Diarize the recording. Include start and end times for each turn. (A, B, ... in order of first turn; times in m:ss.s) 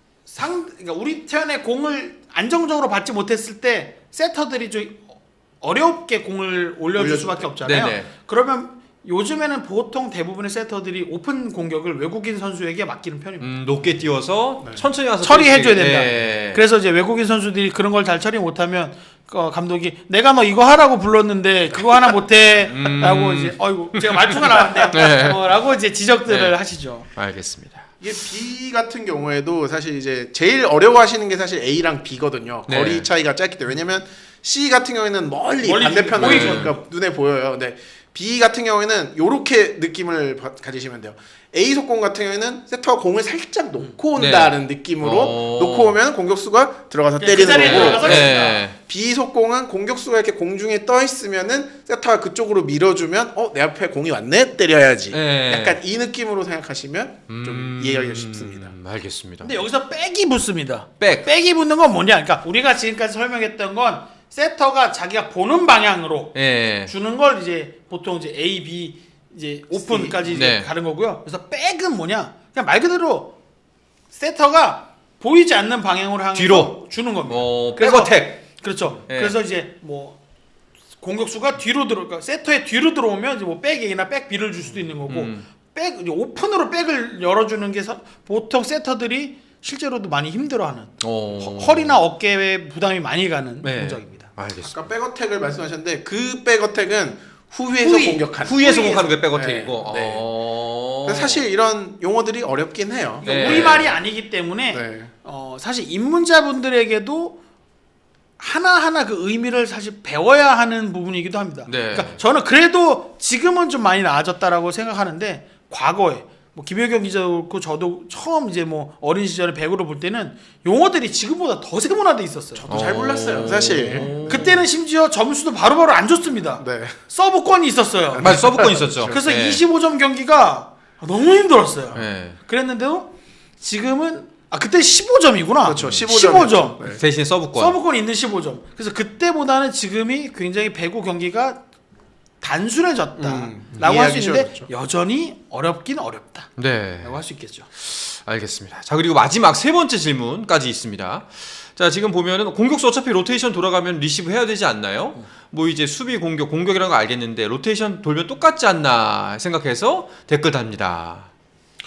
0:00.3-0:13.5 A
0:07.0-0:07.5 B
0:07.6-0:08.1 C
0:13.4-0:16.6 C
0:15.2-0:27.1 A
0:21.7-0:22.0 B
0:22.7-0:25.4 C
0:26.3-0:26.6 C
0:27.1-0:27.9 C
0:28.0-0:58.7 B
0:32.7-0:33.1 C
0:35.6-0:36.7 A
0:36.2-0:36.7 C
0:44.2-0:46.0 C
0:47.2-0:48.6 A
0:47.4-0:48.8 C
0:55.1-0:55.8 C
0:57.3-0:59.6 C
0:59.4-1:06.3 A
1:01.0-1:01.3 C
1:06.3-1:06.9 C
1:06.9-1:13.3 A
1:09.8-1:10.2 B
1:10.3-1:10.7 C
1:14.1-1:20.2 A
1:16.3-1:19.4 C
1:21.0-1:34.3 A
1:25.1-1:25.4 C
1:31.0-1:32.0 C
1:33.6-1:34.8 C
1:34.6-1:40.2 B
1:37.8-1:39.1 A
1:38.4-1:41.4 C
1:41.0-1:43.8 B
1:43.2-1:47.4 A
1:43.2-1:43.9 C
1:44.7-1:45.1 B
1:48.4-2:02.7 A
1:51.7-1:52.2 C
2:02.6-2:04.5 B
2:02.7-2:04.6 C
2:03.9-2:17.0 A
2:06.6-2:07.0 B
2:08.1-2:09.2 B
2:08.2-2:09.6 C
2:11.9-2:12.4 C
2:15.6-2:17.0 B
2:16.8-2:17.8 C
2:17.6-2:21.6 A
2:22.4-2:27.7 A
2:23.2-2:24.7 B
2:26.6-2:27.2 C
2:27.8-2:41.3 C